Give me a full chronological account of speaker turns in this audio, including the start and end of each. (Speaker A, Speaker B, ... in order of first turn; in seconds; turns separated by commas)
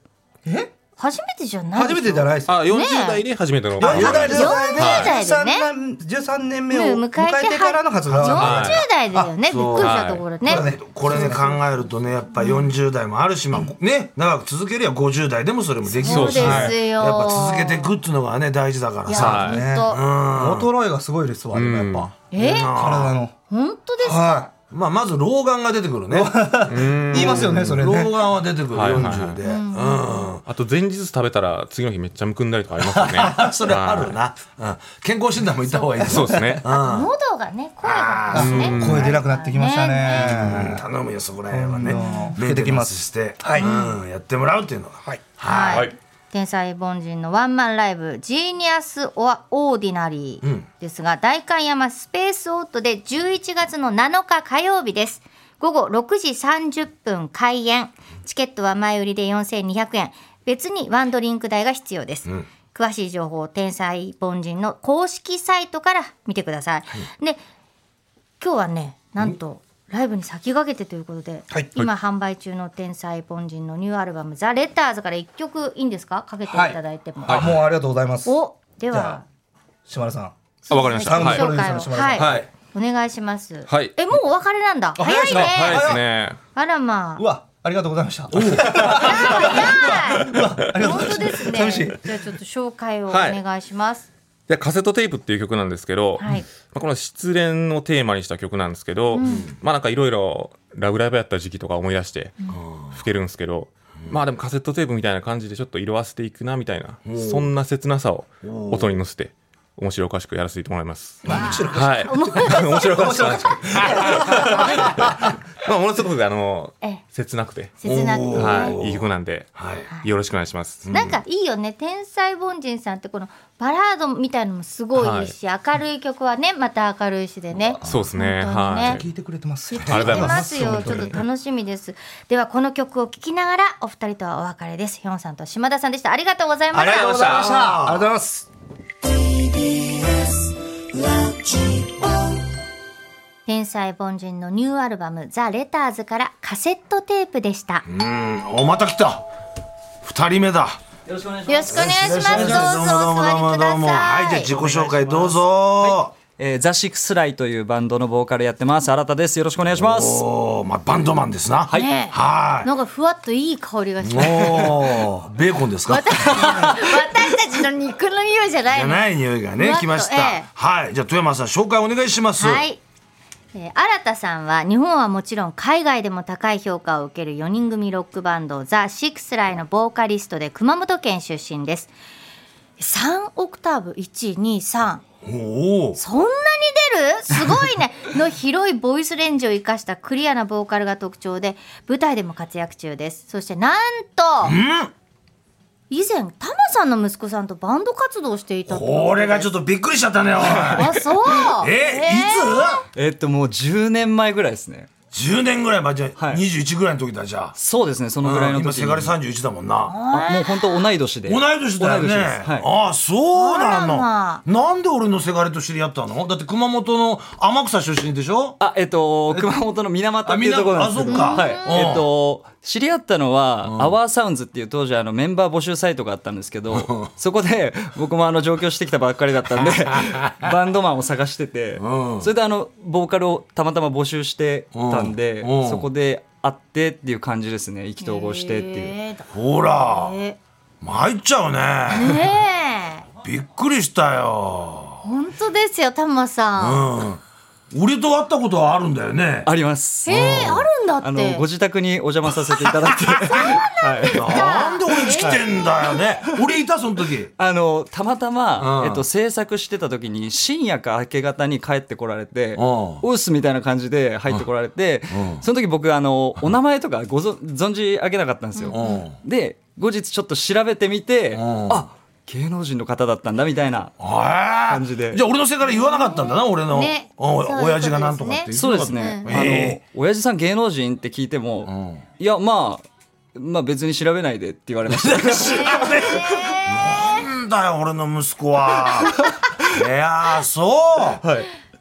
Speaker A: 0.4-0.7, Speaker B: 1.0-3.2, Speaker A: 1.7-2.6, Speaker C: 2.5-5.1, Speaker A: 3.8-9.3, Speaker B: 3.8-5.7, Speaker D: 3.8-4.6, Speaker B: 6.7-11.3, Speaker D: 8.1-8.4, Speaker C: 8.2-8.8, Speaker D: 9.5-20.7, Speaker C: 9.7-10.3, Speaker A: 10.4-11.6, Speaker B: 12.4-12.7, Speaker B: 15.9-17.9, Speaker C: 16.0-16.8, Speaker B: 19.1-20.0, Speaker C: 19.1-19.6, Speaker A: 19.2-23.3, Speaker C: 21.5-22.1, Speaker B: 22.3-22.7, Speaker D: 22.4-23.1, Speaker B: 23.5-24.2, Speaker A: 24.0-24.5, Speaker D: 24.7-26.5, Speaker A: 26.1-28.3, Speaker C: 26.6-27.8, Speaker D: 27.1-30.4, Speaker C: 28.7-29.4, Speaker B: 29.4-30.3, Speaker C: 30.4-34.1, Speaker D: 32.8-37.1, Speaker B: 35.7-36.0, Speaker A: 36.1-36.6, Speaker C: 36.1-36.6, Speaker B: 36.6-40.5, Speaker D: 37.8-38.7, Speaker A: 38.3-40.8, Speaker C: 38.3-39.1, Speaker D: 40.2-45.9, Speaker A: 41.5-43.7, Speaker B: 41.9-42.4, Speaker B: 43.6-44.0, Speaker B: 45.4-67.4, Speaker C: 45.7-46.0, Speaker D: 50.4-50.7, Speaker B: 68.4-77.5, Speaker A: 76.5-78.3, Speaker C: 77.2-77.5, Speaker B: 78.2-79.2, Speaker A: 78.9-79.2, Speaker A: 79.8-82.5, Speaker B: 80.7-86.0, Speaker C: 80.7-81.5, Speaker C: 82.2-82.5, Speaker C: 83.7-84.0, Speaker A: 85.0-86.0, Speaker C: 85.1-86.4, Speaker B: 86.5-87.2, Speaker A: 87.2-92.2, Speaker D: 88.3-88.9, Speaker B: 88.8-94.1, Speaker C: 93.1-93.4, Speaker C: 94.5-117.8, Speaker B: 96.2-96.5, Speaker B: 99.1-99.5, Speaker D: 99.2-99.5, Speaker D: 102.5-103.0, Speaker D: 107.0-107.5, Speaker D: 108.4-109.0, Speaker A: 111.2-115.2, Speaker B: 111.3-113.4, Speaker B: 113.9-114.5, Speaker B: 117.8-118.8, Speaker D: 117.8-119.9, Speaker C: 118.3-120.9, Speaker D: 120.8-121.2, Speaker B: 120.9-129.0, Speaker C: 124.9-125.3, Speaker D: 127.6-128.1, Speaker C: 127.8-129.1, Speaker A: 128.8-131.2, Speaker B: 129.7-137.5, Speaker C: 129.8-130.9, Speaker A: 136.7-138.5, Speaker C: 136.9-137.4, Speaker D: 137.2-138.1, Speaker B: 143.4-147.8, Speaker D: 147.8-149.2, Speaker D: 150.0-150.8, Speaker E: 151.1-152.7, Speaker B: 151.5-154.5, Speaker D: 151.7-156.1, Speaker E: 154.5-160.2, Speaker D: 159.8-162.7, Speaker B: 161.7-164.9, Speaker D: 164.0-166.7, Speaker B: 165.9-169.0, Speaker D: 168.7-172.6, Speaker B: 169.6-170.5, Speaker B: 172.4-172.8, Speaker B: 173.5-181.9, Speaker B: 182.8-185.0, Speaker D: 185.2-186.0, Speaker B: 186.0-194.6, Speaker D: 194.4-194.9, Speaker B: 195.9-199.5, Speaker D: 198.7-202.8, Speaker E: 200.4-201.0, Speaker B: 200.7-202.8, Speaker E: 202.9-204.9, Speaker D: 205.1-207.6, Speaker E: 206.2-206.4, Speaker E: 207.5-209.1, Speaker D: 208.2-209.9, Speaker B: 209.9-210.9, Speaker E: 210.1-212.7, Speaker D: 211.2-218.6, Speaker B: 213.3-214.4, Speaker E: 218.6-238.9, Speaker D: 220.2-222.1, Speaker B: 221.1-221.8, Speaker D: 223.6-223.9, Speaker D: 226.7-227.1, Speaker D: 231.8-232.3, Speaker D: 234.7-235.8, Speaker B: 238.0-240.4, Speaker D: 239.3-240.2, Speaker D: 240.8-242.2, Speaker B: 241.9-243.1, Speaker D: 243.2-245.0, Speaker B: 245.0-246.9, Speaker D: 246.6-249.5, Speaker E: 249.4-254.5, Speaker B: 250.1-251.4, Speaker D: 250.1-250.7, Speaker B: 253.3-255.4, Speaker D: 254.1-257.3, Speaker E: 255.0-255.4, Speaker E: 257.4-274.0, Speaker D: 258.6-259.0, Speaker D: 262.6-263.0, Speaker D: 265.1-265.4, Speaker B: 268.5-269.0, Speaker D: 268.7-269.2, Speaker D: 271.3-271.9, Speaker D: 274.0-279.8, Speaker E: 274.7-275.2, Speaker B: 275.6-279.3, Speaker E: 278.5-286.0, Speaker D: 281.6-282.0, Speaker D: 284.9-291.2, Speaker B: 285.4-287.2, Speaker E: 291.2-291.5